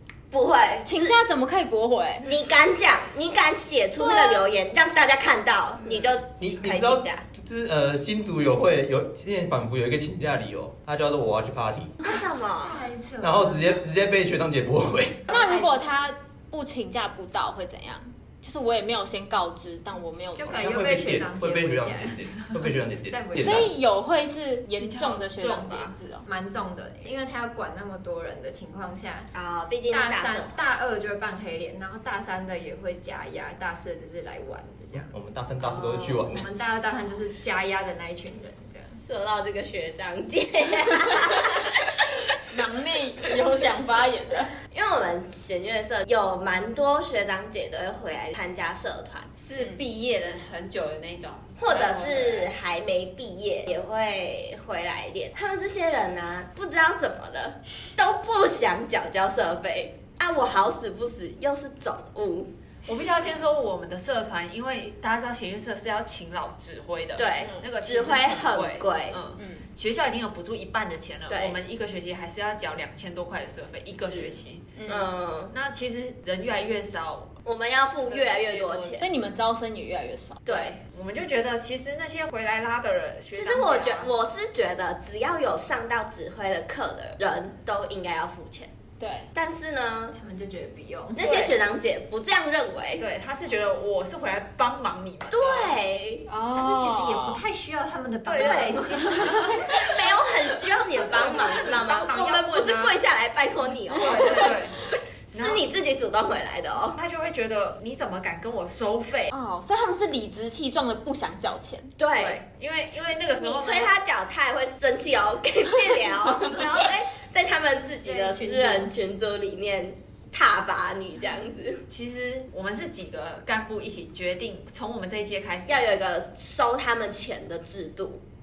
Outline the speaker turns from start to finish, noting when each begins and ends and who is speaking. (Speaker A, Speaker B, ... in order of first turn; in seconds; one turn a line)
Speaker A: 0.3-1.2
Speaker B: 0.8-2.3
Speaker A: 2.2-7.2
Speaker B: 4.0-4.5
Speaker C: 6.4-12.0
Speaker A: 12.0-12.9
Speaker D: 12.6-13.8
Speaker C: 13.2-15.2
Speaker B: 15.3-20.7
Speaker A: 15.3-15.8
Speaker D: 20.4-22.2
Speaker C: 20.5-23.7
Speaker D: 23.1-23.7
Speaker B: 23.4-26.2
Speaker E: 24.8-25.9
Speaker D: 26.2-29.3
Speaker A: 29.3-30.5
Speaker D: 29.9-35.1
Speaker C: 35.0-36.5
Speaker D: 35.6-39.0
Speaker A: 39.0-42.2
Speaker B: 42.5-44.5
Speaker A: 44.7-49.3
Speaker E: 49.4-52.5
Speaker A: 51.6-62.5
Speaker E: 62.9-74.8
Speaker A: 67.2-69.2
Speaker B: 69.4-69.7
Speaker A: 71.3-71.6
Speaker A: 73.9-75.5
Speaker B: 74.8-75.0
Speaker E: 75.5-77.4
Speaker A: 77.4-79.0
Speaker E: 78.0-79.0
Speaker B: 79.0-80.4
Speaker A: 80.5-80.8
Speaker E: 80.5-84.1
Speaker A: 83.3-88.7
Speaker B: 89.0-89.3
Speaker A: 89.3-90.2
Speaker D: 90.1-91.3
Speaker A: 91.1-93.0
Speaker E: 91.2-91.5
Speaker E: 93.0-95.8
Speaker A: 95.3-96.3
Speaker B: 96.3-97.4
Speaker D: 96.4-99.7
Speaker E: 98.2-99.8
Speaker A: 98.3-107.0
Speaker E: 100.9-103.0
Speaker E: 103.9-104.8
Speaker E: 105.3-105.6
Speaker E: 106.9-109.3
Speaker B: 109.3-111.9
Speaker A: 112.0-112.4
Speaker E: 112.1-113.9
Speaker A: 113.4-121.8
Speaker D: 118.0-118.9
Speaker E: 121.9-125.9
Speaker A: 125.7-128.2